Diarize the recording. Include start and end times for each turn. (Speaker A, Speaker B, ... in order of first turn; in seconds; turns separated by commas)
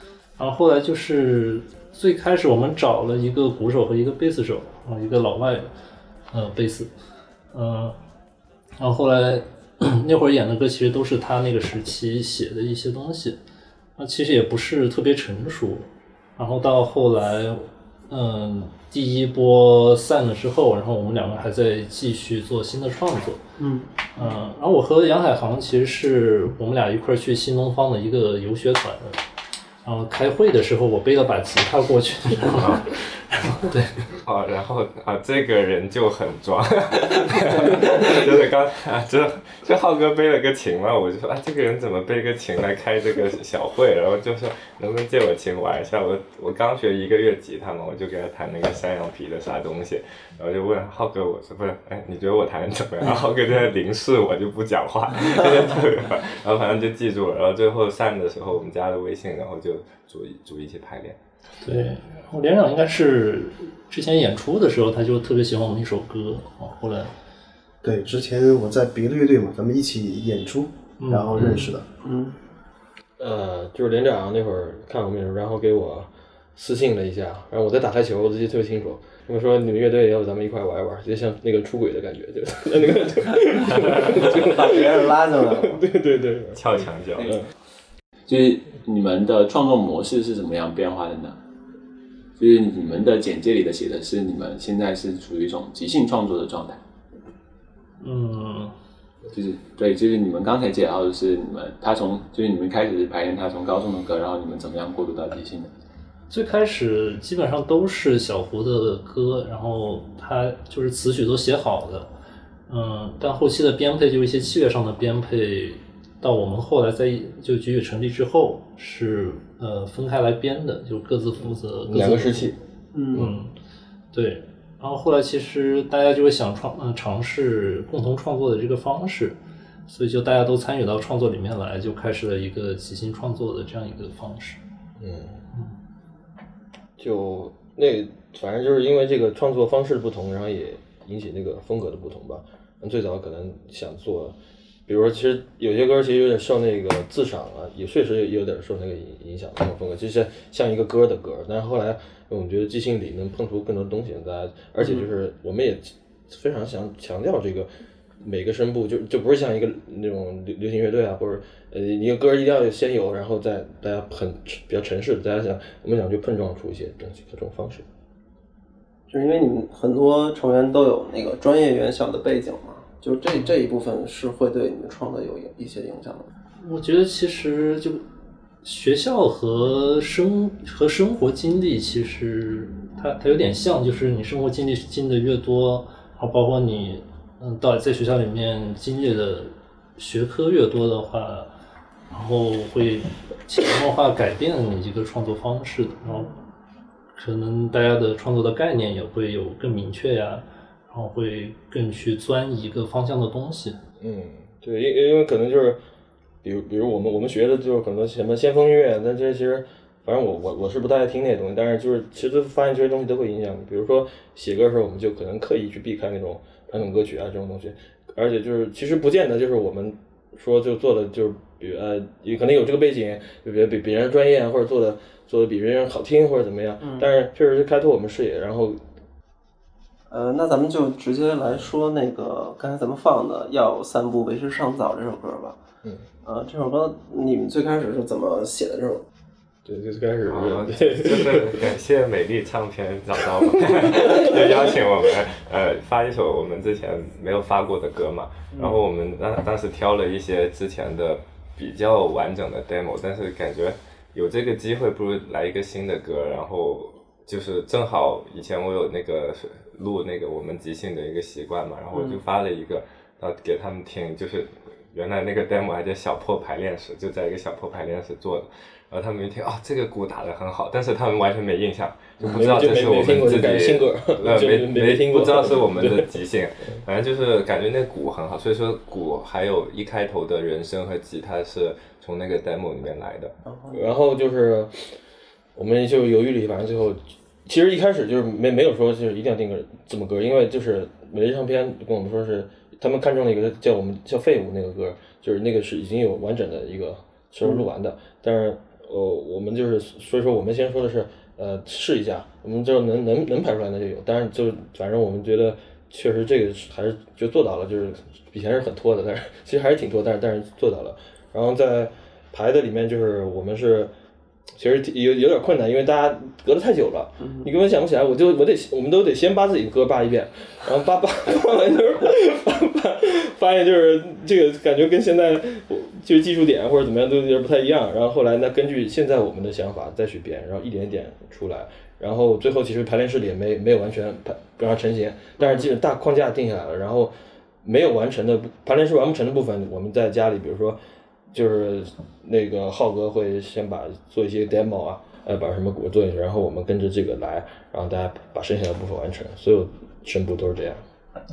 Speaker A: 0.4-5.7, Speaker A: 6.3-6.9, Speaker A: 7.5-8.0, Speaker A: 8.8-13.4, Speaker A: 14.0-23.4, Speaker B: 23.6-23.9, Speaker A: 24.1-29.2, Speaker A: 29.8-34.0, Speaker C: 34.1-61.2, Speaker A: 61.6-67.1, Speaker D: 67.8-71.8, Speaker A: 71.0-71.7, Speaker B: 71.4-72.4, Speaker E: 73.2-87.4, Speaker B: 83.8-85.8, Speaker C: 86.5-87.4, Speaker F: 88.3-91.4, Speaker F: 92.4-96.8, Speaker A: 98.0-98.7, Speaker F: 99.3-105.7, Speaker A: 106.3-112.1, Speaker A: 112.7-122.5, Speaker E: 121.8-122.6, Speaker B: 122.9-123.3, Speaker A: 123.1-123.5, Speaker A: 124.1-129.4, Speaker A: 129.9-134.6, Speaker E: 135.0-135.4, Speaker E: 137.0-144.4, Speaker E: 144.9-157.7, Speaker B: 154.8-155.1, Speaker E: 158.2-167.8, Speaker B: 169.1-176.3, Speaker A: 176.6-178.0, Speaker A: 178.6-191.5, Speaker A: 192.1-196.3, Speaker A: 197.2-203.8, Speaker E: 204.0-205.8, Speaker E: 206.4-228.8, Speaker B: 226.8-227.1, Speaker B: 230.1-235.6, Speaker B: 236.2-239.0, Speaker E: 239.7-241.7, Speaker C: 240.3-283.3, Speaker E: 243.7-244.8, Speaker B: 261.9-262.2, Speaker E: 272.2-276.1, Speaker B: 283.5-283.9, Speaker E: 283.7-284.9, Speaker E: 285.6-313.9, Speaker E: 314.6-340.8, Speaker B: 317.2-317.5, Speaker B: 335.4-335.7, Speaker E: 341.3-350.8